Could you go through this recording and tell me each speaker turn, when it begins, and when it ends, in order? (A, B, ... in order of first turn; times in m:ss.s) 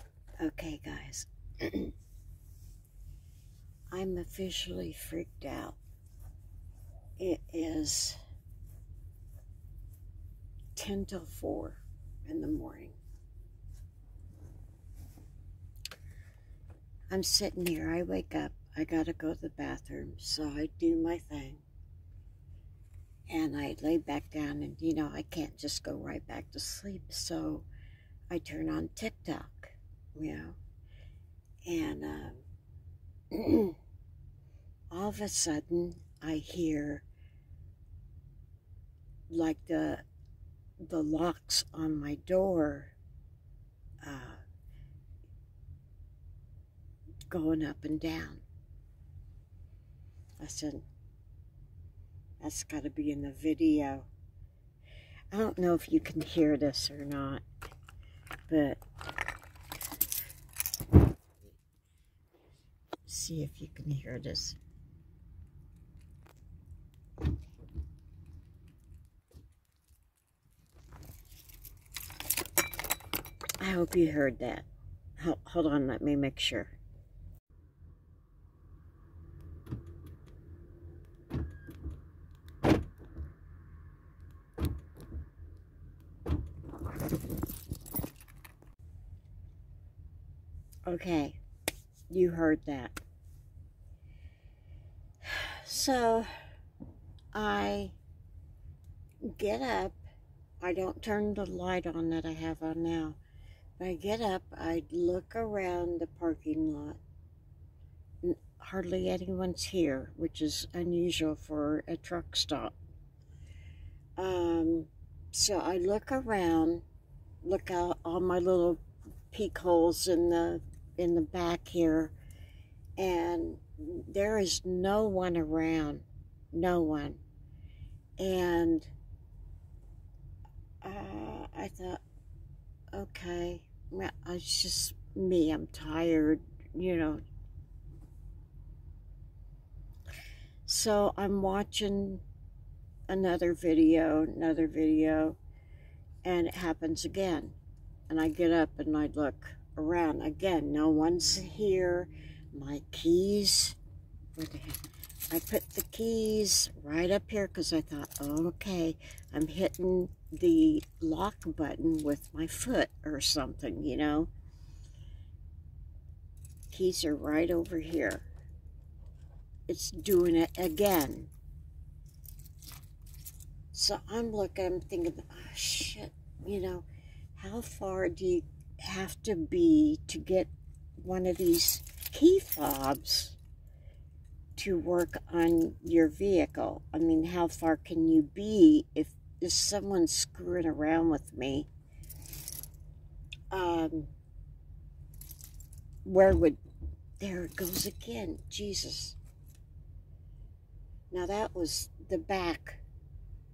0:00.4-0:01.9 A
0:03.9-0:05.8 A
0:07.2-0:08.2 A
0:10.8-0:13.0 A
0:17.1-0:21.6 A
0:23.3-0:27.7 A
0:28.3-0:30.6 A
0:31.7-0:32.4 A
0:33.3-0:33.8 A
0:34.9-0:37.0 A
0:39.3-0:40.0 A
0:40.8-0:42.9 A
0:44.0-0:44.4 A
0:47.3-0:48.4 A
0:50.4-0:50.8 A
0:52.4-0:54.1 A
0:55.3-0:57.4 A
0:58.5-0:58.8 A
1:03.1-1:04.6 A
1:13.6-1:14.7 A
1:15.2-1:16.7 A
1:30.9-1:31.4 A
1:32.1-1:33.0 A
1:35.2-1:36.3 A
1:37.3-1:38.0 A
1:39.2-1:40.0 A
1:40.6-1:43.2 A
1:43.8-1:47.0 A
1:48.2-1:52.7 A
1:54.2-1:56.8 A
1:57.4-2:02.1 A
2:03.0-2:07.2 A
2:08.2-2:08.9 A
2:10.8-2:12.0 A
2:12.9-2:17.2 A
2:20.7-2:22.2 A
2:23.1-2:25.4 A
2:26.2-2:27.6 A
2:28.1-2:33.8 A
2:34.4-2:44.3 A
2:46.7-2:48.3 A
2:49.7-2:51.3 A
2:53.7-3:03.4 A
3:04.6-3:11.7 A
3:13.5-3:14.1 A
3:16.0-3:16.6 A
3:17.2-3:19.2 A
3:21.1-3:22.8 A